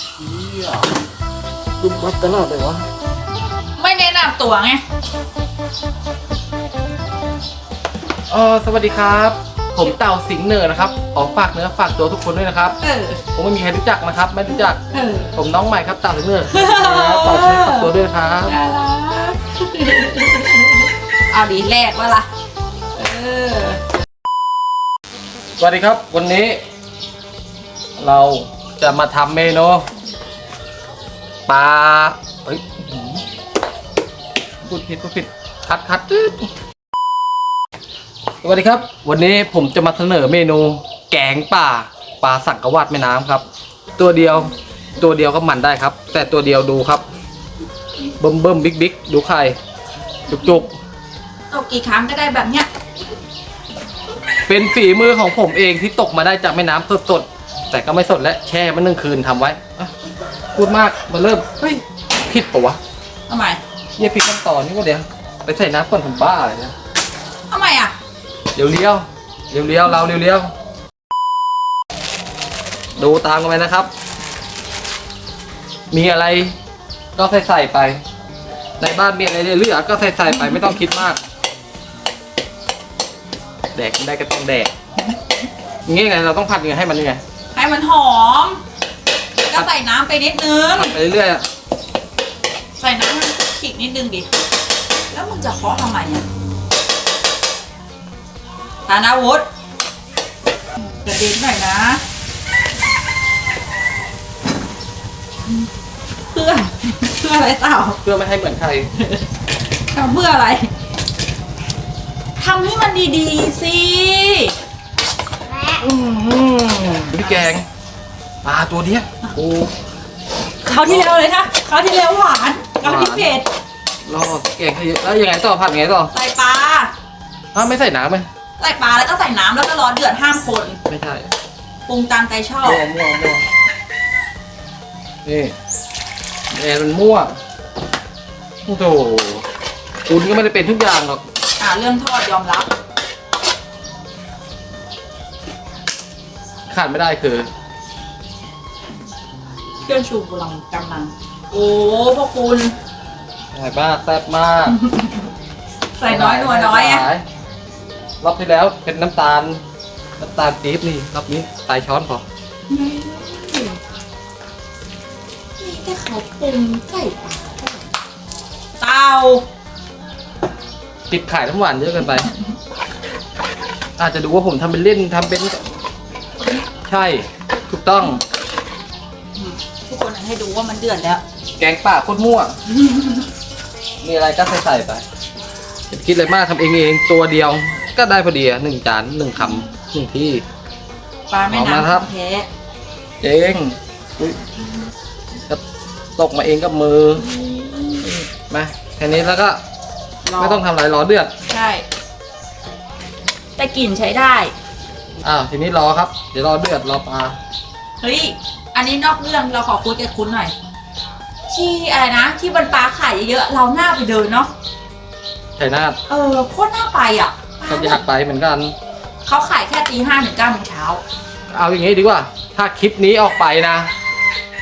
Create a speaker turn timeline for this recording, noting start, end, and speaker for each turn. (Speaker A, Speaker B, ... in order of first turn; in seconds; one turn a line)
Speaker A: 0.2-0.9
Speaker A: 1.8-2.9
Speaker B: 3.8-4.8
Speaker A: 8.3-12.8
Speaker B: 12.8-13.2
Speaker A: 13.3-14.8
Speaker B: 14.9-15.3
Speaker A: 15.3-18.5
Speaker B: 16.5-17.9
Speaker B: 18.4-22.3
Speaker B: 22.9-23.8
Speaker A: 25.6-26.6
Speaker A: 28.0-29.9
Speaker A: 31.5-33.2
Speaker A: 34.6-36.5
Speaker A: 38.4-43.5
Speaker A: 44.0-47.0
Speaker A: 48.2-49.6
Speaker A: 50.3-50.7
Speaker B: 51.5-52.7
Speaker A: 54.5-59.9
Speaker A: 60.5-62.8
Speaker B: 63.3-63.6
Speaker A: 64.0-66.7
Speaker B: 67.5-67.9
Speaker A: 68.5-70.5
Speaker A: 73.0-73.9
Speaker A: 75.9-76.5
Speaker A: 77.2-78.0
Speaker A: 78.8-81.2
Speaker B: 80.3-80.7
Speaker A: 83.7-84.7
Speaker A: 85.8-87.2
Speaker B: 87.5-88.6
Speaker B: 89.4-90.9
Speaker A: 90.7-91.5
Speaker B: 92.8-94.3
Speaker B: 95.1-96.2
Speaker B: 98.9-99.5
Speaker B: 101.0-102.0
Speaker B: 106.3-108.0
Speaker A: 108.0-108.9
Speaker B: 109.9-110.7
Speaker B: 112.4-114.5
Speaker A: 115.8-117.7
Speaker B: 117.2-117.5
Speaker A: 118.4-119.7
Speaker B: 120.6-123.5
Speaker A: 120.8-121.2
Speaker A: 122.8-123.3
Speaker A: 124.0-126.1
Speaker B: 126.1-126.9
Speaker A: 127.5-128.3
Speaker B: 128.6-130.8
Speaker A: 130.9-131.3
Speaker B: 131.9-132.8
Speaker A: 132.6-133.4
Speaker A: 135.2-135.5
Speaker A: 136.5-137.3
Speaker A: 138.7-139.4
Speaker A: 140.1-141.2
Speaker B: 141.6-142.7
Speaker A: 146.7-147.5
Speaker B: 149.8-152.7
Speaker A: 153.5-154.8
Speaker B: 154.7-155.3
Speaker B: 156.0-157.0
Speaker A: 156.1-157.2
Speaker A: 158.2-159.6
Speaker A: 160.2-162.2
Speaker B: 162.7-163.8
Speaker B: 165.6-167.9
Speaker B: 168.8-169.4
Speaker A: 171.1-172.3
Speaker A: 174.0-175.6
Speaker A: 176.8-178.2
Speaker B: 179.3-181.2
Speaker A: 181.6-182.5
Speaker B: 182.8-183.2
Speaker A: 184.0-185.0
Speaker A: 185.9-190.4
Speaker B: 191.3-192.5
Speaker A: 191.5-192.1
Speaker A: 193.2-194.4
Speaker A: 196.2-197.3
Speaker B: 197.2-198.1
Speaker A: 198.0-199.6
Speaker B: 200.2-200.6
Speaker A: 200.4-201.3
Speaker B: 201.5-201.8
Speaker B: 203.6-204.5
Speaker A: 205.2-207.4
Speaker B: 208.0-210.5
Speaker B: 211.5-214.5
Speaker A: 215.6-216.0
Speaker B: 216.1-218.0
Speaker A: 217.7-218.7
Speaker B: 219.2-221.0
Speaker A: 221.5-223.9